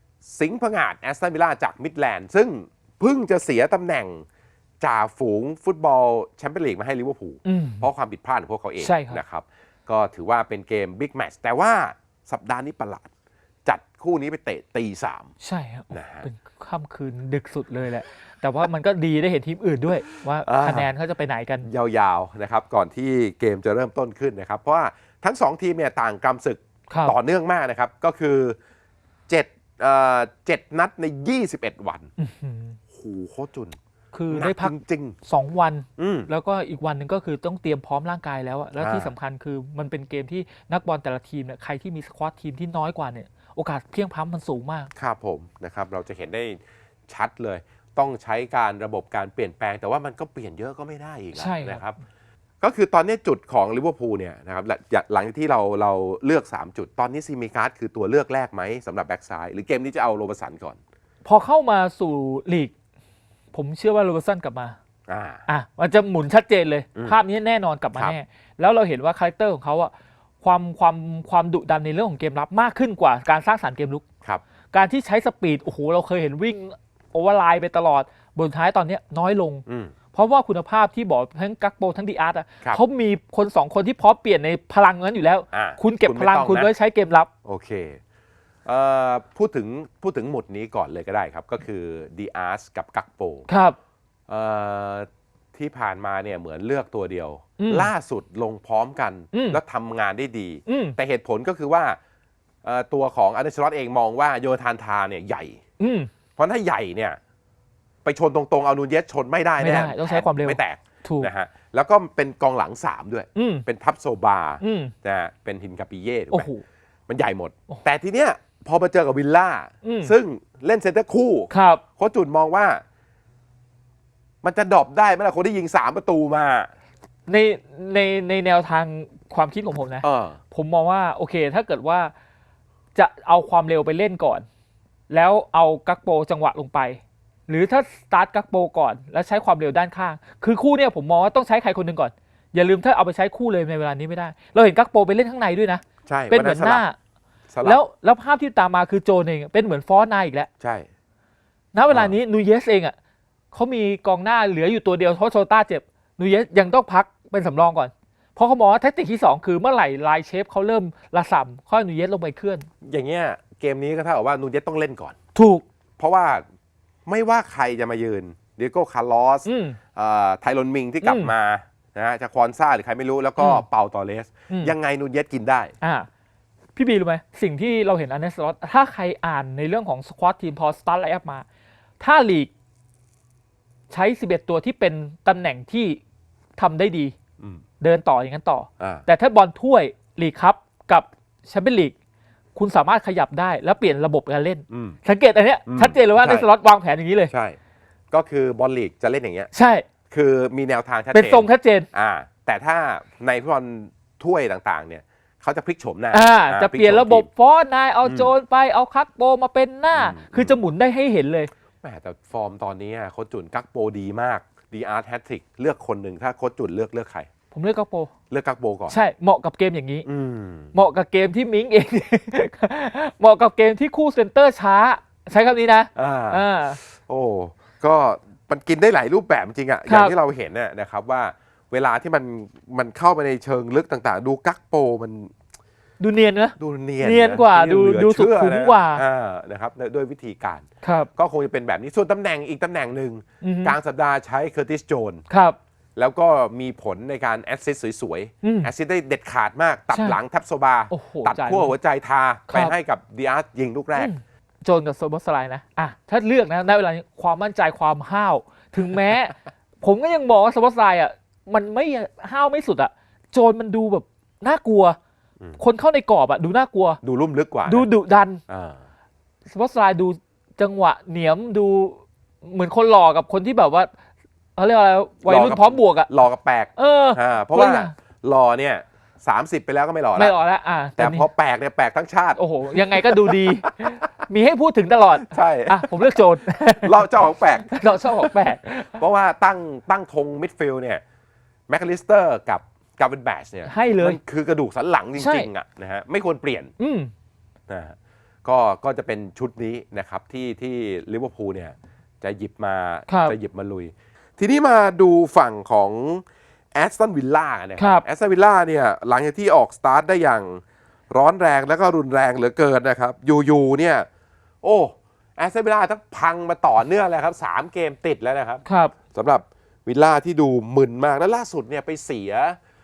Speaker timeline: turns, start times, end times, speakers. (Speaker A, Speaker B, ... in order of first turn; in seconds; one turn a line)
Speaker A: 0.2-4.2
Speaker A: 4.8-13.1
Speaker B: 7.4-7.9
Speaker B: 8.8-9.2
Speaker A: 13.7-15.3
Speaker B: 15.4-21.7
Speaker A: 15.9-16.3
Speaker A: 20.4-20.9
Speaker A: 21.6-28.6
Speaker B: 26.9-27.1
Speaker A: 29.3-32.1
Speaker B: 32.2-32.8
Speaker A: 32.9-33.8
Speaker B: 34.1-34.7
Speaker A: 34.3-35.2
Speaker B: 35.2-44.9
Speaker A: 36.0-36.3
Speaker A: 38.8-39.1
Speaker A: 45.0-52.0
Speaker B: 51.3-51.9
Speaker A: 52.6-60.8
Speaker B: 61.2-62.7
Speaker B: 63.5-64.8
Speaker A: 65.1-65.4
Speaker B: 65.5-74.0
Speaker B: 74.7-87.3
Speaker A: 79.7-79.9
Speaker A: 85.5-86.7
Speaker A: 87.4-88.0
Speaker A: 88.6-93.5
Speaker B: 93.5-93.8
Speaker A: 94.3-102.0
Speaker B: 97.6-97.9
Speaker B: 99.3-99.6
Speaker B: 100.7-101.0
Speaker A: 102.6-105.6
Speaker B: 105.8-106.1
Speaker A: 106.3-107.2
Speaker A: 108.0-116.5
Speaker B: 109.6-111.3
Speaker B: 113.3-113.7
Speaker B: 114.6-114.9
Speaker B: 116.3-116.6
Speaker A: 117.1-122.8
Speaker B: 119.8-120.1
Speaker B: 121.5-121.8
Speaker A: 124.4-126.7
Speaker B: 127.3-132.1
Speaker A: 130.0-130.4
Speaker B: 132.9-134.5
Speaker B: 135.1-147.0
Speaker A: 146.1-146.8
Speaker A: 147.5-147.8
Speaker B: 147.6-150.5
Speaker A: 150.6-150.9
Speaker B: 151.7-152.9
Speaker A: 151.9-152.2
Speaker B: 153.5-162.7
Speaker A: 162.8-165.2
Speaker B: 165.3-165.6
Speaker A: 166.0-166.4
Speaker A: 167.1-175.7
Speaker B: 169.4-169.8
Speaker B: 171.0-171.3
Speaker B: 173.4-173.7
Speaker B: 174.5-174.7
Speaker B: 175.8-176.1
Speaker B: 176.8-181.4
Speaker B: 182.0-182.5
Speaker B: 183.9-186.0
Speaker B: 186.6-187.1
Speaker B: 187.8-191.9
Speaker A: 188.8-189.1
Speaker B: 192.5-197.3
Speaker A: 194.7-195.0
Speaker A: 195.7-196.5
Speaker A: 197.3-197.6
Speaker A: 198.1-199.5
Speaker B: 199.5-199.8
Speaker A: 200.1-207.3
Speaker B: 201.1-201.9
Speaker B: 206.1-211.5
Speaker A: 208.0-208.3
Speaker A: 209.9-210.6
Speaker A: 211.8-217.3
Speaker B: 217.5-218.1
Speaker A: 218.3-219.0
Speaker B: 218.9-220.1
Speaker A: 220.0-220.7
Speaker B: 220.7-226.8
Speaker A: 225.9-235.3
Speaker B: 229.8-230.2
Speaker B: 236.0-239.0
Speaker A: 236.6-245.2
Speaker B: 240.8-241.1
Speaker B: 243.4-243.8
Speaker B: 245.3-245.6
Speaker A: 245.9-254.1
Speaker B: 248.4-248.7
Speaker B: 249.9-250.2
Speaker B: 250.9-251.7
Speaker B: 252.5-252.7
Speaker B: 253.9-265.0
Speaker B: 265.6-267.0
Speaker A: 267.0-267.9
Speaker B: 267.6-268.4
Speaker A: 268.5-268.8
Speaker B: 269.5-273.9
Speaker B: 274.6-276.1
Speaker A: 275.2-280.4
Speaker B: 276.8-277.9
Speaker B: 280.1-281.3
Speaker A: 281.0-284.0
Speaker B: 282.4-289.0
Speaker A: 285.2-286.1
Speaker A: 286.8-291.0
Speaker A: 291.7-296.7
Speaker B: 293.6-294.2
Speaker B: 295.1-295.5
Speaker B: 296.8-297.1
Speaker A: 297.7-314.1
Speaker B: 303.1-303.4
Speaker B: 307.8-308.0
Speaker A: 314.6-322.6
Speaker B: 318.6-318.9